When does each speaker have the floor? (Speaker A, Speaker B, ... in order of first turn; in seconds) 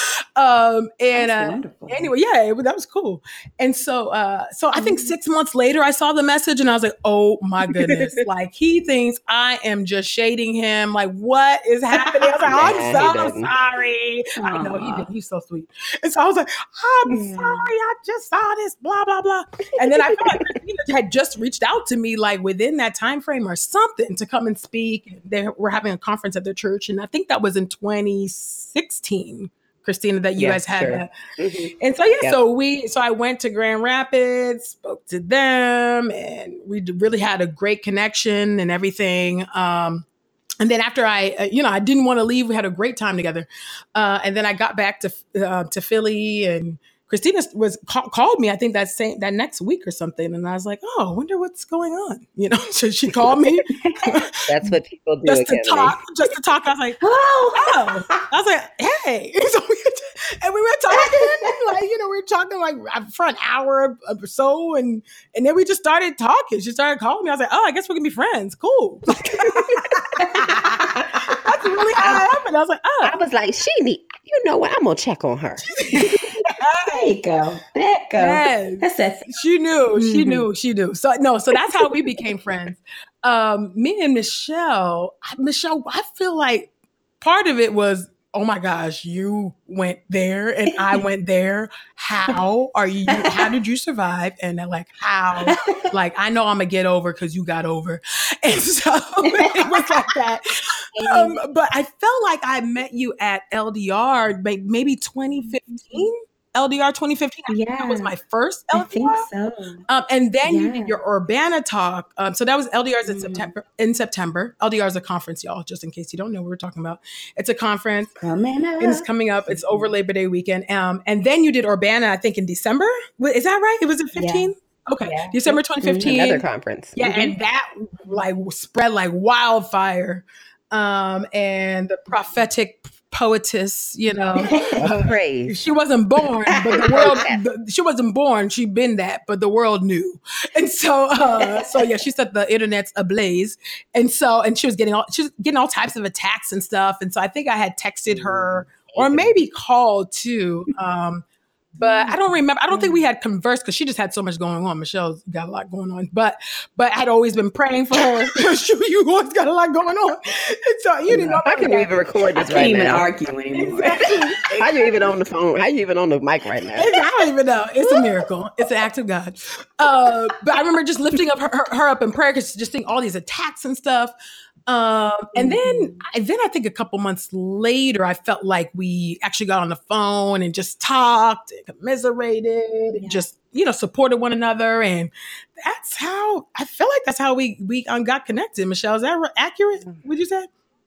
Speaker A: 0.4-31.1, 31.8-40.1, 40.6-54.5, 55.3-57.0, 57.6-73.2, 75.7-77.1, 78.2-109.3, 109.9-118.2, 118.8-151.2, 151.8-162.0, 163.5-164.4, 166.8-174.1, 174.7-190.5
Speaker B: 1.1-2.1, 4.8-5.1, 11.9-13.0, 14.4-15.1, 17.1-17.6, 53.7-54.1, 57.0-58.2, 60.9-61.6, 69.6-72.3, 75.9-76.3, 76.8-79.3, 79.9-80.5, 81.5-82.2, 93.1-93.5, 95.5-95.9, 99.2-100.1, 100.9-101.4, 105.4-106.1, 107.5-108.1, 108.7-109.8, 110.4-111.0, 113.1-113.5, 118.2-119.9, 124.2-126.2, 127.0-127.3, 134.4-134.9, 136.5-137.3, 141.3-142.0, 151.8-152.2, 152.7-153.0, 161.1-161.4, 162.4-164.8, 167.8-168.2, 175.3-176.0, 182.9-183.3
Speaker C: 12.5-13.5, 19.9-20.5, 30.4-32.4, 54.5-56.0, 73.0-76.1, 126.0-127.0, 134.8-135.6, 136.8-137.4, 148.1-149.3, 161.1-163.1, 164.6-166.9